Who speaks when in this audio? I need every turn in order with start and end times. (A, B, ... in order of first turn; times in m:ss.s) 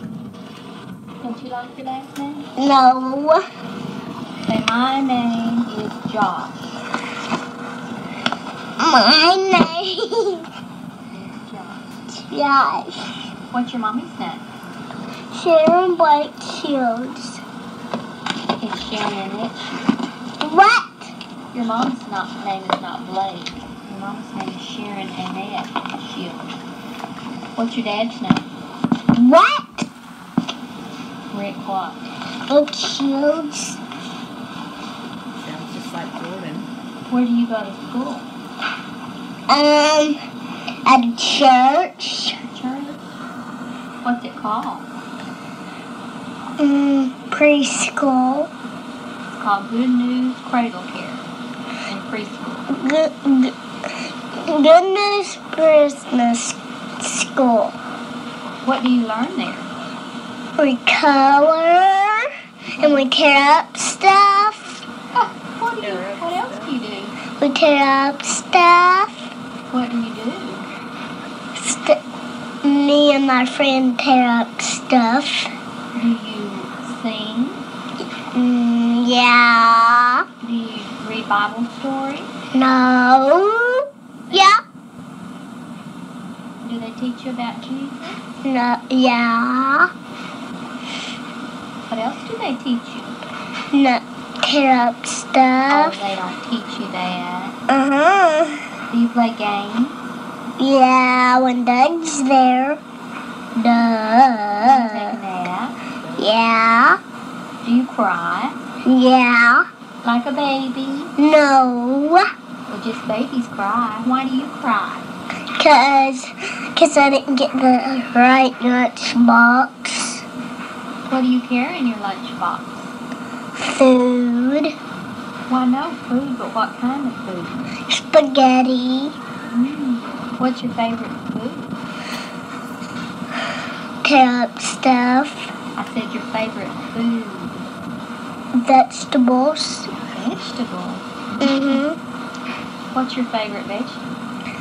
0:01.2-0:02.5 A
0:02.6-0:03.4 B
0:04.4-0:06.7 A
0:08.8-0:10.4 B
0:11.1-0:11.9 A
0:12.2-0:13.1 B
0:13.5-0:14.4 A
0:15.3-0:17.4 B
0:18.6-0:19.8 A
0:20.4-0:21.1 B
0:21.5-0:26.5 A
0:27.6-0:28.5 A
0:29.1-0:29.9 B
0:31.3-0:32.1 A
0:32.5-0:33.8 B
0:35.4-0:36.7 C
0:37.0-0:38.3 A
0:39.5-0:40.2 B
0:40.8-0:42.4 B
0:42.4-0:43.0 A
0:44.0-0:44.9 A
0:46.6-0:48.5 B
0:49.3-0:51.2 A
0:51.8-0:52.8 A
0:52.7-0:53.5 B
0:54.4-0:57.8 B
0:58.6-0:59.7 A
1:00.6-1:04.8 B
1:02.8-1:03.0 A
1:05.1-1:07.2 A
1:05.8-1:06.7 C
1:07.4-1:09.2 B
1:09.7-1:10.7 A
1:11.6-1:12.0 B
1:12.6-1:15.5 B
1:15.9-1:17.6 A
1:18.3-1:20.2 B
1:20.4-1:22.3 A
1:22.5-1:24.6 B
1:24.3-1:24.5 A
1:26.6-1:28.2 A
1:28.4-1:29.9 B
1:31.8-1:33.2 A
1:33.7-1:36.0 B
1:35.7-1:37.6 A
1:37.7-1:38.7 B
1:38.9-1:40.0 A
1:40.6-1:42.8 B
1:43.6-1:45.2 B
1:44.6-1:45.9 A
1:46.2-1:47.0 B
1:47.6-1:48.6 A
1:48.8-1:49.6 B
1:50.0-1:51.1 A
1:51.2-1:52.2 B
1:52.7-1:55.1 A
1:55.6-2:00.2 B
2:01.0-2:02.9 A
2:03.6-2:04.7 B
2:05.5-2:07.7 A
2:07.9-2:09.1 B
2:09.4-2:11.8 A
2:14.0-2:15.5 B
2:15.8-2:17.7 A
2:18.6-2:19.9 B
2:19.9-2:21.8 A
2:21.4-2:22.0 B
2:22.9-2:24.1 A